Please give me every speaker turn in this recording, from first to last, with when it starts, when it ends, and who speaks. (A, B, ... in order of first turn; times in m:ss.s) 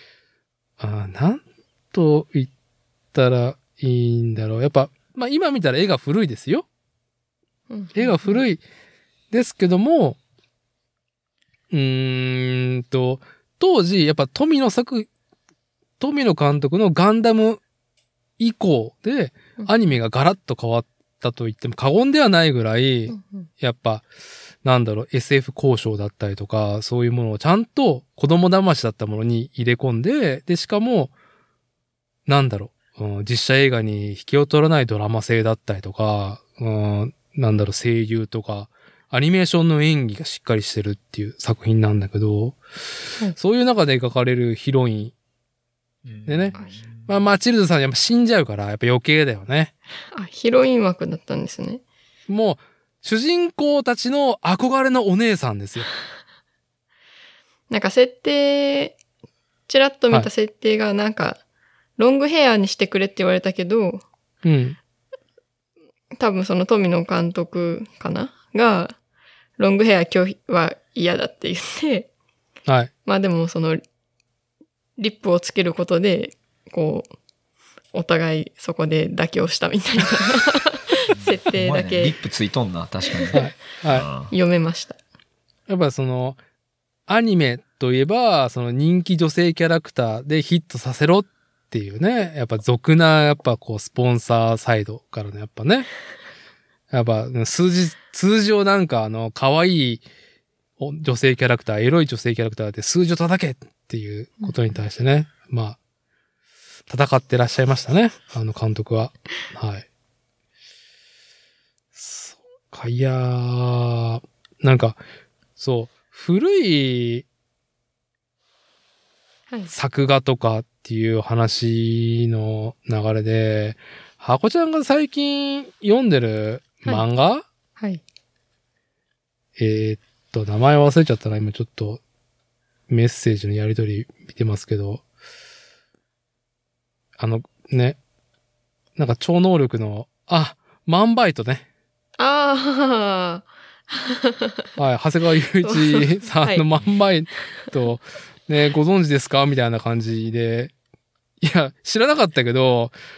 0:00.8-0:02.5 A
0:03.1-0:06.7 A
0:07.7-0:08.4 B
0:08.0-0:08.6 A
0:09.3-0:10.2 A
0:11.7-0:15.1 A
0:16.0-0:17.6 A
0:18.4-0:24.0 A
0:23.1-0:23.5 B
0:24.6-0:31.1 A
0:32.3-0:42.6 A
0:43.3-0:45.1 A
0:46.0-0:47.1 C
0:46.3-0:49.7 A
0:50.1-0:51.8 B
0:52.3-0:55.9 A
0:57.7-0:59.0 B
0:59.7-1:01.4 B
1:02.0-1:04.0 B
1:04.4-1:04.8 A
1:06.2-1:09.0 B
1:09.6-1:12.1 B
1:13.1-1:13.8 B
1:15.0-1:17.1 B
1:17.9-1:22.2 B
1:21.1-1:24.3 C
1:23.1-1:23.5 B
1:23.3-1:24.1 A
1:24.3-1:25.0 B
1:25.7-1:26.4 A
1:27.1-1:35.9 A
1:36.9-1:40.0 A
1:40.8-1:45.8 A
1:44.4-1:44.8 B
1:46.9-1:49.9 A
1:52.0-1:55.0 A
1:55.6-1:57.2 A
1:59.7-2:07.5 A
2:09.6-2:12.0 A
2:12.9-2:15.0 A
2:17.2-2:18.0 A
2:19.0-2:21.6 A
2:22.2-2:24.7 B
2:24.8-2:30.7 A
2:25.6-2:26.6 B
2:31.4-2:32.9 A